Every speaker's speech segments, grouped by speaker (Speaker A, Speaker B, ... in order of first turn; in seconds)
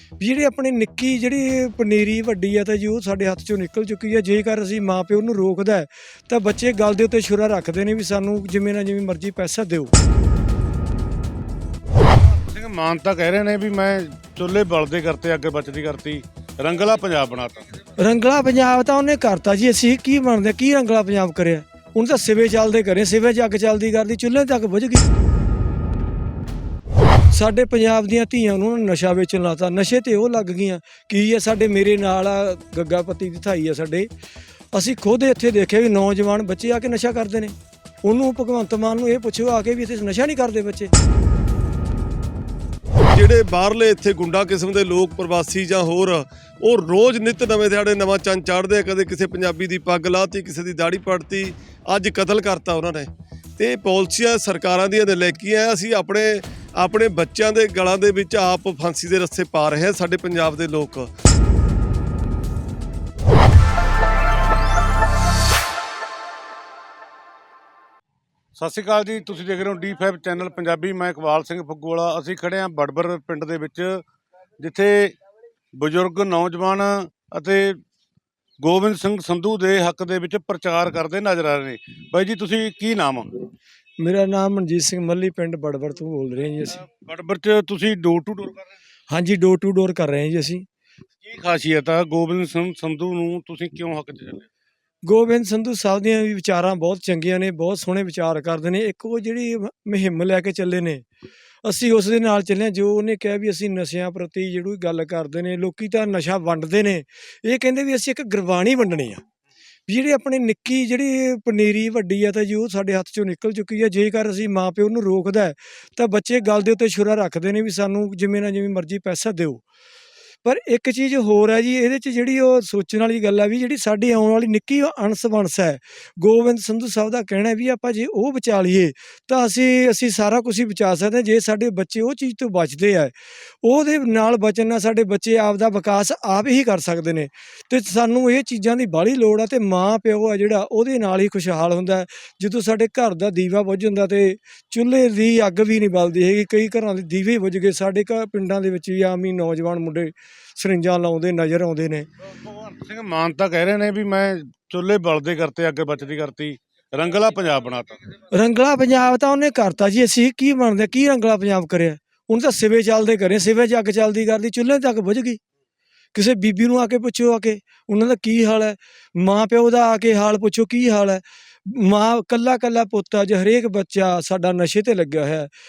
Speaker A: 0.2-9.9, 18.0-25.1, 27.3-34.1, 34.7-37.5, 38.0-40.9, 84.0-86.8, 89.1-90.7, 95.1-101.0, 101.7-109.2, 109.9-119.6, 120.5-152.1, 158.3-165.4, 166.1-175.5
Speaker B: 12.3-17.6, 68.6-74.0, 74.6-75.2, 75.8-77.8, 78.6-83.3, 87.0-88.7, 91.2-94.5, 152.4-158.0
Speaker C: 43.1-61.1